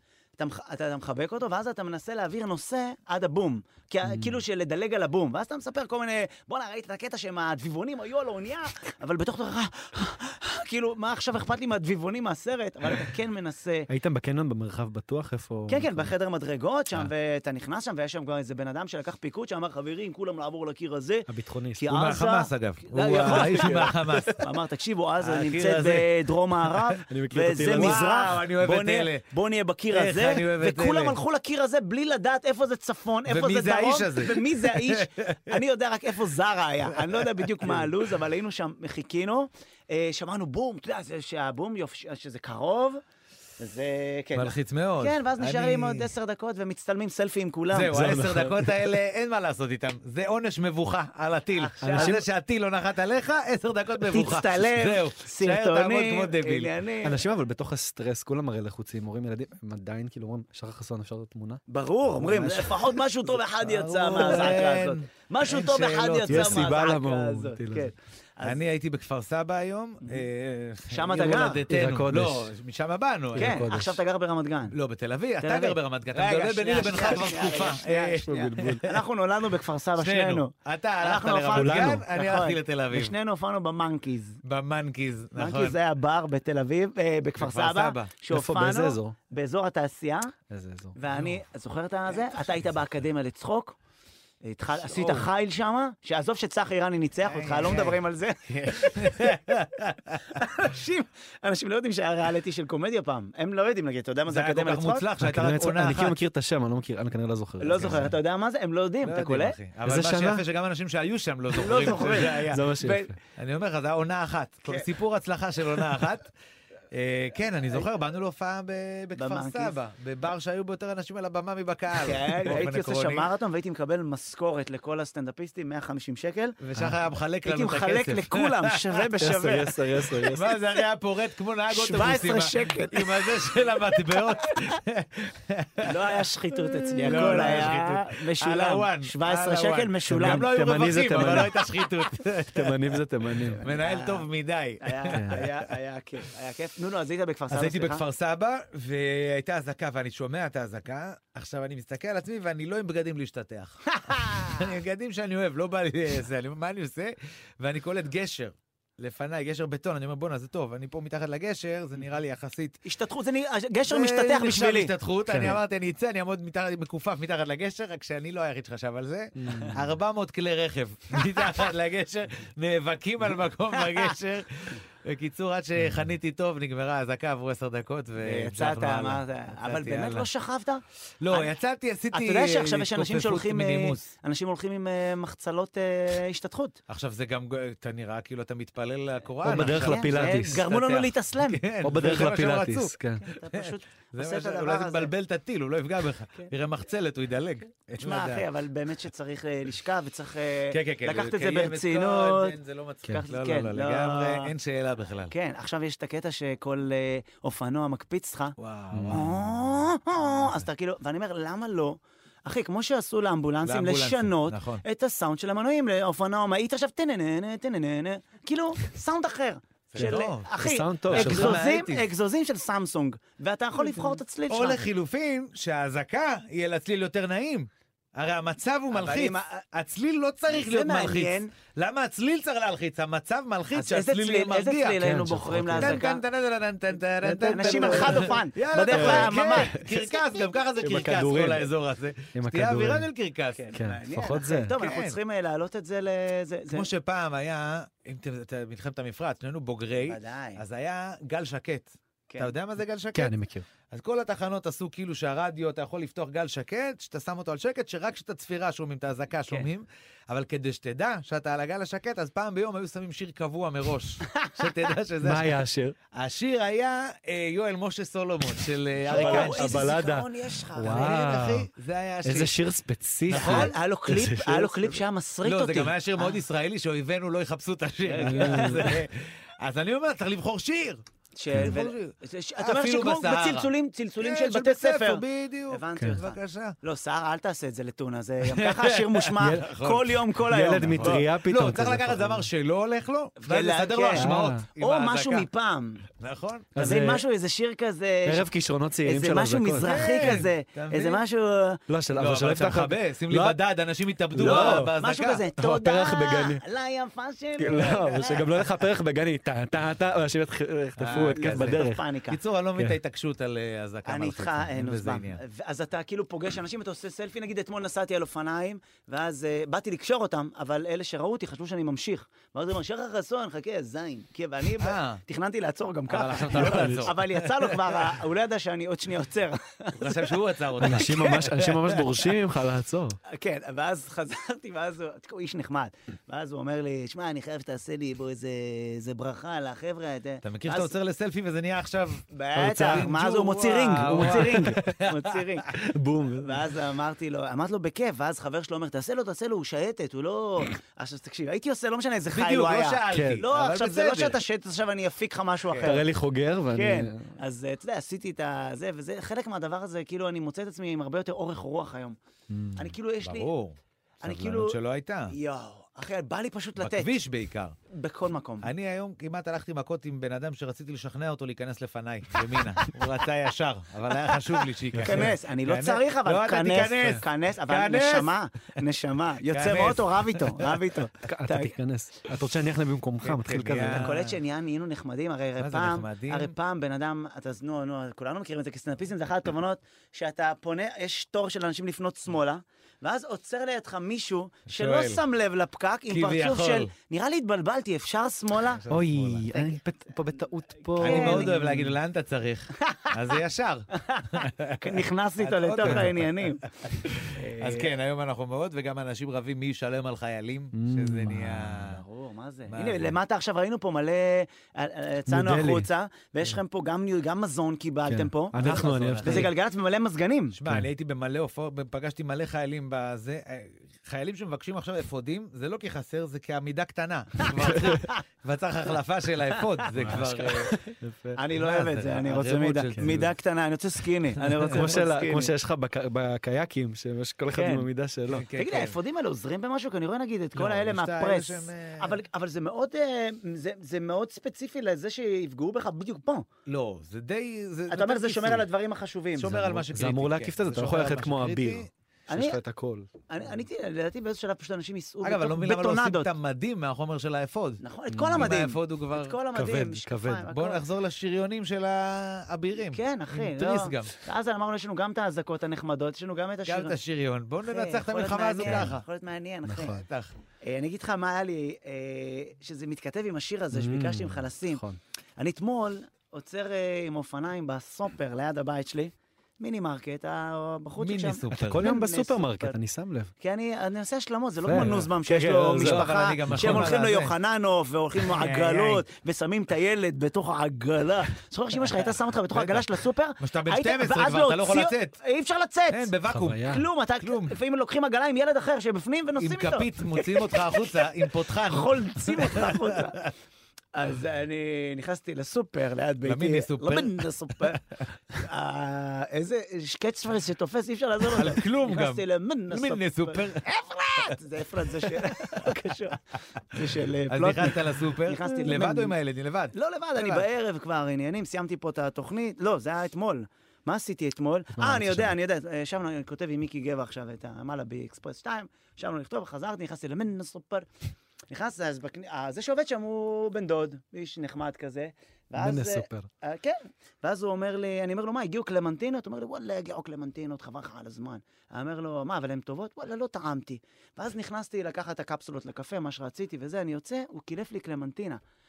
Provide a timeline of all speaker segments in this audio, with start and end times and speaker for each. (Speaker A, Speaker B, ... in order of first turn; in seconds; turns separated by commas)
Speaker A: 0.4-13.9, Speaker B: 4.1-4.3, Speaker B: 13.9-16.1, Speaker A: 15.7-43.0, Speaker B: 21.3-21.9, Speaker C: 21.9-24.3, Speaker B: 23.1-24.5, Speaker C: 25.2-26.1, Speaker B: 27.1-28.0, Speaker C: 27.7-29.3, Speaker C: 29.9-31.2, Speaker C: 33.3-35.6, Speaker C: 37.1-37.9, Speaker A: 43.6-48.0, Speaker C: 44.4-46.1, Speaker C: 47.7-56.7, Speaker B: 47.9-49.0, Speaker A: 51.6-52.2, Speaker B: 51.8-52.3, Speaker A: 54.1-57.2, Speaker B: 57.0-61.6, Speaker A: 61.7-68.6, Speaker C: 62.2-66.7, Speaker B: 66.3-67.9, Speaker C: 68.4-73.6, Speaker A: 70.9-71.7, Speaker B: 71.7-72.5, Speaker B: 73.3-74.0, Speaker A: 73.4-74.8, Speaker C: 74.7-79.0, Speaker A: 75.4-84.4, Speaker B: 78.3-78.8, Speaker C: 80.0-83.1, Speaker B: 81.5-82.1, Speaker C: 84.5-85.8, Speaker A: 85.4-90.3, Speaker C: 87.4-88.1, Speaker B: 88.3-89.2, Speaker B: 90.5-91.0, Speaker A: 91.0-93.8, Speaker A: 94.4-99.3, Speaker C: 94.8-95.3, Speaker C: 97.2-100.4, Speaker A: 100.4-105.0, Speaker C: 104.3-106.2, Speaker B: 105.2-108.1, Speaker A: 107.6-109.6, Speaker C: 109.0-112.7, Speaker B: 109.8-110.5, Speaker A: 111.5-113.1, Speaker B: 112.3-113.2, Speaker C: 113.3-116.3, Speaker C: 116.9-123.3, Speaker A: 119.2-119.8, Speaker A: 122.0-126.6, Speaker C: 126.6-129.1, Speaker A: 127.4-129.8, Speaker B: 129.2-130.5, Speaker C: 130.2-136.0, Speaker A: 131.7-133.7, Speaker A: 135.8-140.5, Speaker B: 137.0-137.7, Speaker C: 137.0-143.0, Speaker B: 140.1-141.6, Speaker B: 142.5-143.6, Speaker A: 143.5-144.3, Speaker C: 143.6-145.6, Speaker A: 144.8-148.0, Speaker B: 145.1-145.4, Speaker C: 147.5-162.8, Speaker A: 153.9-154.7, Speaker A: 162.8-164.9, Speaker C: 163.9-180.3, Speaker B: 165.3-165.6, Speaker B: 169.4-169.9, Speaker A: 178.2-181.5, Speaker C: 181.2-184.0, Speaker A: 182.1-186.8, Speaker C: 186.9-193.0, Speaker B: 189.4-190.7, Speaker A: 189.6-191.6, Speaker B: 191.8-193.2, Speaker A: 193.2-195.1, Speaker C: 193.5-198.5, Speaker A: 198.0-202.6, Speaker C: 200.7-205.3, Speaker A: 203.1-204.5, Speaker A: 205.3-208.6, Speaker C: 208.6-209.6, Speaker B: 208.9-209.3, Speaker A: 209.1-224.9, Speaker C: 210.2-210.7, Speaker C: 213.6-214.8, Speaker C: 219.9-220.6, Speaker B: 220.0-221.6, Speaker C: 221.1-222.1, Speaker C: 223.9-235.0, Speaker A: 228.9-229.6, Speaker A: 230.5-231.5, Speaker A: 233.7-236.2, Speaker B: 235.0-236.0, Speaker C: 235.8-243.6, Speaker B: 237.2-240.1, Speaker A: 237.4-240.0, Speaker B: 240.8-241.7, Speaker B: 242.3-243.1, Speaker A: 243.5-246.9, Speaker B: 243.8-244.8, Speaker C: 244.8-245.2, Speaker C: 246.7-253.3, Speaker A: 250.1-250.6, Speaker B: 253.1-253.7, Speaker C: 253.9-265.6, Speaker B: 265.2-266.0, Speaker C: 266.1-270.0, Speaker B: 269.1-271.7, Speaker A: 269.1-271.1, Speaker C: 270.8-272.6, Speaker B: 272.2-275.0, Speaker C: 273.3-273.7, Speaker A: 273.3-276.4, Speaker C: 275.4-286.8, Speaker A: 278.0-279.0, Speaker B: 278.2-278.9, Speaker A: 281.4-291.3, Speaker C: 288.5-295.5, Speaker B: 289.4-289.7, Speaker B: 290.4-292.5, Speaker A: 293.4-296.0, Speaker B: 294.1-294.6, Speaker C: 296.2-296.7, Speaker B: 296.8-297.2, Speaker A: 296.8-298.5, Speaker B: 298.3-300.4, Speaker A: 299.1-301.8, Speaker C: 299.8-301.2, Speaker B: 301.9-303.6, Speaker C: 302.1-305.5, Speaker B: 304.3-304.9, Speaker A: 304.4-308.5, Speaker B: 305.6-306.6, Speaker B: 307.6-312.0, Speaker C: 311.0-315.4, Speaker A: 311.1-312.4, Speaker A: 314.1-331.2, Speaker C: 324.8-325.2, Speaker C: 326.1-328.0, Speaker B: 326.5-327.1, Speaker C: 330.0-332.1, Speaker B: 330.8-333.2, Speaker A: 333.3-340.9, Speaker C: 340.4-345.4, Speaker A: 342.3-345.7, Speaker B: 342.6-343.1, Speaker B: 344.1-344.8, Speaker B: 345.8-346.6, Speaker A: 346.4-356.1, Speaker C: 352.3-354.4, Speaker B: 353.1-353.4, Speaker B: 355.8-357.3, Speaker A: 356.7-362.2, Speaker B: 362.5-362.9, Speaker A: 362.8-363.5, Speaker C: 363.2-365.4, Speaker A: 364.2-364.8, Speaker A: 365.3-367.2, Speaker C: 366.8-367.8, Speaker A: 367.9-368.7, Speaker C: 368.6-378.4, Speaker B: 374.9-375.3, Speaker A: 375.0-381.7, Speaker C: 379.5-380.8, Speaker B: 381.3-384.1, Speaker C: 383.2-384.4, Speaker A: 383.9-398.8, Speaker C: 385.6-386.5, Speaker C: 394.7-395.2, Speaker C: 396.1-396.9, Speaker C: 398.6-399.5, Speaker B: 398.9-401.9, Speaker A: 399.5-399.8, Speaker A: 400.9-401.6, Speaker C: 401.0-412.0, Speaker A: 403.9-406.7, Speaker B: 405.8-406.1, Speaker A: 407.2-407.9, Speaker B: 410.7-411.9, Speaker A: 411.9-420.6, Speaker C: 412.7-413.2, Speaker B: 415.3-415.9, Speaker B: 418.1-419.5, Speaker C: 418.6-419.5, Speaker C: 420.5-430.8, Speaker A: 427.4-428.2, Speaker A: 429.8-430.5, Speaker B: 429.9-431.4, Speaker A: 431.4-435.5, Speaker C: 431.5-433.3, Speaker B: 433.0-433.3, Speaker B: 434.4-438.5, Speaker A: 437.5-437.9, Speaker C: 438.3-439.0, Speaker A: 438.6-446.5, Speaker C: 440.6-442.2, Speaker C: 446.7-448.7, Speaker A: 447.9-449.5, Speaker C: 449.4-451.9, Speaker B: 449.4-453.1, Speaker A: 452.3-452.6, Speaker A: 453.3-456.3, Speaker C: 455.2-457.8, Speaker A: 457.8-460.8, Speaker B: 458.1-458.5, Speaker C: 458.4-459.4, Speaker B: 459.5-460.5, Speaker C: 460.5-464.2, Speaker A: 462.9-467.0, Speaker C: 466.7-469.0, Speaker A: 467.7-470.0, Speaker B: 468.6-468.9, Speaker B: 469.6-470.0, Speaker C: 469.9-470.3, Speaker A: 470.6-474.8, Speaker B: 473.7-475.0, Speaker A: 475.4-482.8, Speaker C: 481.0-481.9, Speaker B: 481.5-483.3, Speaker A: 483.4-496.1, Speaker B: 484.6-486.9, Speaker C: 484.7-487.4, Speaker C: 488.2-489.0, Speaker C: 491.9-495.2, Speaker C: 495.9-497.6, Speaker B: 496.3-496.9, Speaker A: 496.7-503.2, Speaker C: 499.4-503.3, Speaker A: 503.9-519.1, Speaker C: 506.2-508.0, Speaker C: 511.3-514.4, Speaker C: 515.0-515.7, Speaker C: 517.3-520.4, Speaker A: 519.7-530.9, Speaker B: 524.8-525.3, Speaker A: 531.5-548.4, Speaker B: 535.6-536.3